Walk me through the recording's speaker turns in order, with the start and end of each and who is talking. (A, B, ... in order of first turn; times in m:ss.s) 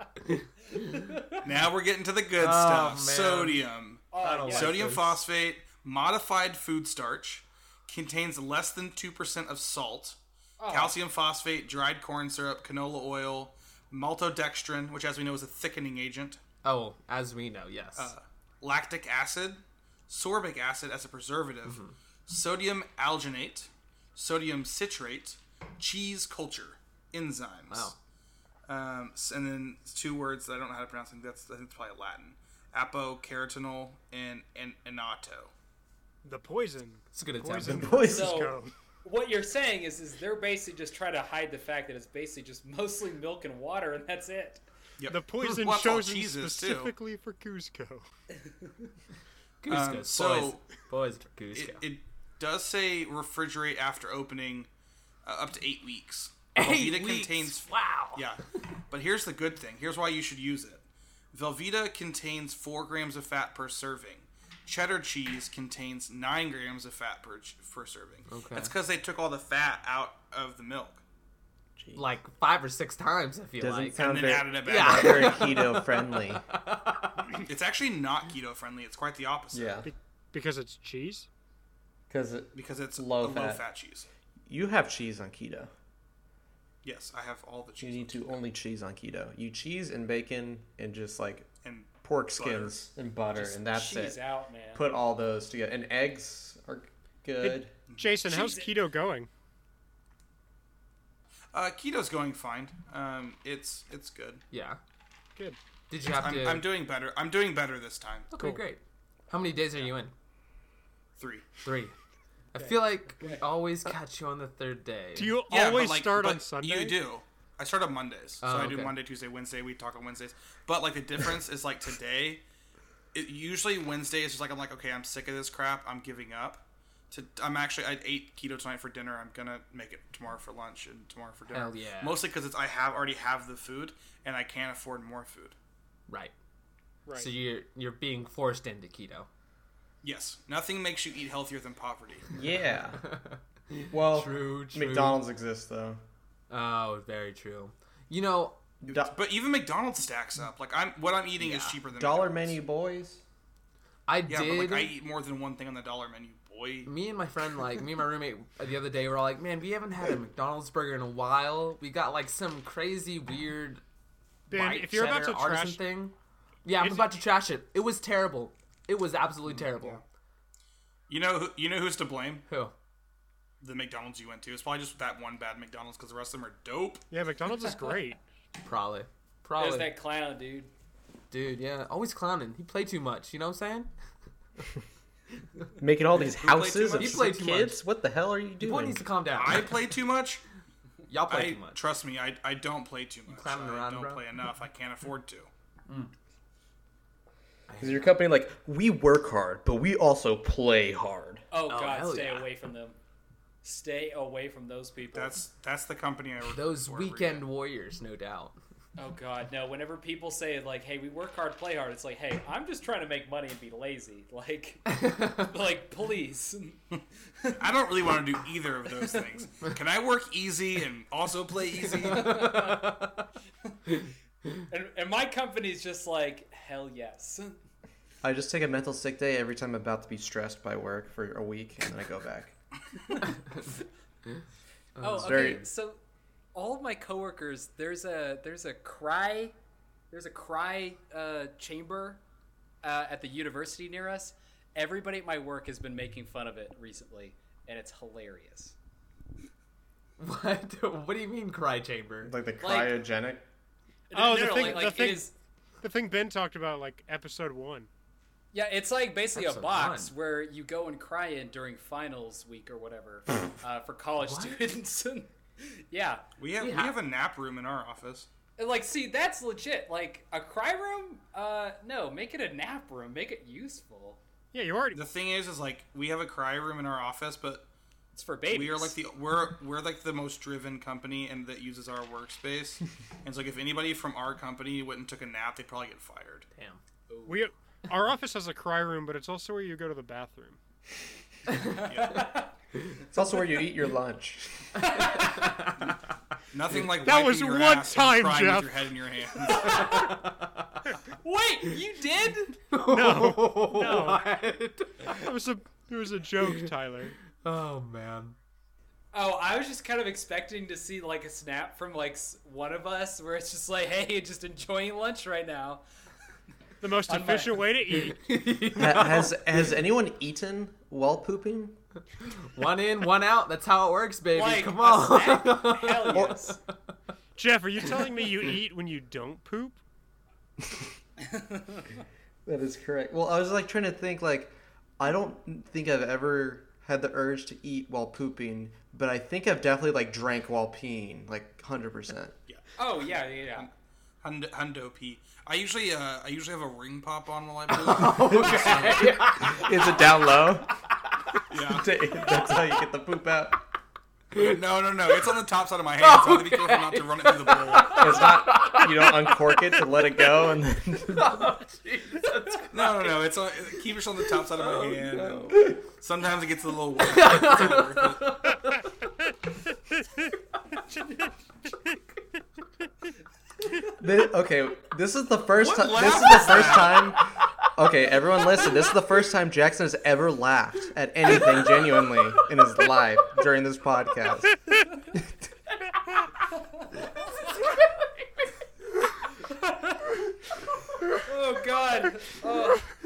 0:00.3-0:01.0 A
0:01.0-0:01.4 B
0:01.4-0:16.4 C
0:02.4-0:03.6 A
0:04.1-0:04.7 B
0:04.2-0:05.2 A
0:10.6-0:10.9 B
0:16.6-0:18.1 A
0:18.0-0:27.9 C
0:21.6-0:21.9 A
0:27.7-0:28.0 A
0:28.7-0:35.5 C
0:36.2-0:38.7 D
0:37.1-0:38.1 A
0:37.7-0:38.5 E
0:38.1-0:44.6 B
0:45.0-0:46.9 C
0:45.1-0:48.0 D
0:49.6-0:51.8 A
0:49.7-0:50.6 C
0:51.5-0:54.7 C
0:55.2-1:11.0 C
0:56.5-0:58.2 A
1:08.3-1:08.7 A
1:11.8-1:12.0 E
1:11.9-1:17.3 A
1:13.6-1:16.4 E
1:14.0-1:15.5 C
1:17.4-1:19.8 C
1:19.5-1:19.9 E
1:19.8-1:21.3 D
1:22.1-1:23.6 E
1:22.5-1:24.1 C
1:24.5-1:25.7 E
1:26.8-1:28.4 C
1:27.8-1:31.5 E
1:31.6-1:32.8 C
1:32.0-1:34.2 E
1:33.3-1:34.8 B
1:34.7-1:37.7 E
1:37.4-1:39.3 D
1:37.9-1:38.2 C
1:38.2-1:38.7 B
1:41.5-1:44.4 C
1:44.5-1:44.8 A
1:45.9-1:46.7 A
1:46.0-1:48.3 C
1:48.3-1:50.1 A
1:51.2-1:51.5 C
1:51.6-1:51.9 A
1:52.5-1:55.4 A
1:52.6-1:53.4 B
1:55.1-1:57.0 D
1:55.5-2:02.4 C
1:58.4-1:58.9 A
2:03.1-2:15.6 C
2:11.5-2:12.2 A
2:16.1-2:16.3 A
2:17.0-2:17.3 D
2:17.1-2:19.3 A
2:20.0-2:22.2 C
2:22.3-2:23.0 E
2:23.0-2:25.2 A
2:23.9-2:26.0 E
2:26.5-2:28.6 A
2:28.8-2:29.1 E
2:28.9-2:32.6 C
2:31.4-2:31.8 A
2:32.0-2:33.2 E
2:34.1-2:34.9 A
2:34.3-2:36.9 C
2:36.8-2:43.8 A
2:44.5-2:45.8 D
2:44.5-2:46.1 A
2:46.6-2:50.0 A
2:49.5-2:50.0 C
2:51.1-2:52.4 C
2:52.5-2:52.7 A
2:53.6-2:57.0 C
2:57.1-2:58.2 D
2:58.6-2:59.9 A
2:59.6-3:00.7 B
3:01.3-3:03.9 A
3:05.8-3:09.0 E
3:06.3-3:07.3 C
3:06.9-3:07.8 A
3:08.6-3:09.8 A
3:09.3-3:10.4 C
3:11.1-3:11.8 A
3:11.3-3:15.5 C
3:13.3-3:14.2 A
3:17.7-3:18.1 A
3:17.8-3:21.4 E
3:21.5-3:23.0 B
3:21.7-3:22.5 A
3:23.6-3:25.4 B
3:25.1-3:27.4 C
3:26.5-3:28.5 A
3:29.0-3:36.8 B
3:35.0-3:35.4 A
3:37.5-3:42.5 C
3:42.0-3:43.0 B
3:42.1-3:43.2 A
3:44.7-3:47.6 B
3:48.2-3:52.5 E
3:55.0-3:55.6 A
3:55.0-3:56.0 B
3:55.2-3:55.6 E
3:56.5-3:59.5 B
4:00.1-4:02.2 B
4:02.8-4:08.7 B
4:10.2-4:12.3 A
4:12.2-4:13.4 E
4:12.6-4:13.0 B
4:14.1-4:15.3 B
4:14.1-4:15.3 D
4:15.8-4:17.9 D
4:18.5-4:26.2 B
4:19.3-4:20.1 A
4:24.2-4:24.6 A
4:26.4-4:28.3 C
4:26.6-4:26.9 A
4:28.6-4:34.2 B
4:34.5-4:35.0 D
4:34.9-4:37.7 C
4:38.1-4:39.0 B
4:38.5-4:46.5 C
4:46.5-4:46.8 A
4:47.1-4:47.4 B
4:47.2-4:50.6 D
4:51.8-4:52.5 B
4:51.8-4:52.3 C
4:53.1-4:54.8 E
4:54.9-4:55.9 A
4:56.5-4:59.9 C
4:57.0-4:58.8 D
4:59.4-5:00.2 B
4:59.7-5:00.8 A
5:01.1-5:02.6 B
5:02.7-5:05.3 A
5:02.9-5:04.2 D
5:05.0-5:07.2 D
5:07.4-5:08.4 A
5:09.1-5:15.8 B
5:16.8-5:18.2 D
5:17.1-5:17.6 B
5:17.9-5:19.4 A
5:18.8-5:21.8 E
5:22.5-5:26.4 A
5:24.3-5:26.6 B
5:26.1-5:26.4 E
5:27.4-5:29.8 D
5:31.4-5:31.8 B
5:32.4-5:42.3 E
5:42.5-5:43.7 C
5:42.8-5:43.7 B
5:44.2-5:49.0 C
5:47.7-5:50.2 A
5:48.3-5:50.7 E
5:51.5-5:51.9 C
5:51.7-5:53.6 E
5:54.3-5:55.3 A
5:54.4-5:58.2 C
5:56.0-6:00.2 A
5:57.9-6:01.5 E
6:01.1-6:03.2 A
6:02.7-6:08.4 C
6:04.3-6:05.8 A
6:07.0-6:08.9 A
6:14.0-6:24.6 E
6:15.6-6:17.1 C
6:16.4-6:17.7 A
6:21.3-6:23.0 A
6:27.4-6:28.5 A
6:29.5-6:30.0 B
6:31.2-6:32.9 B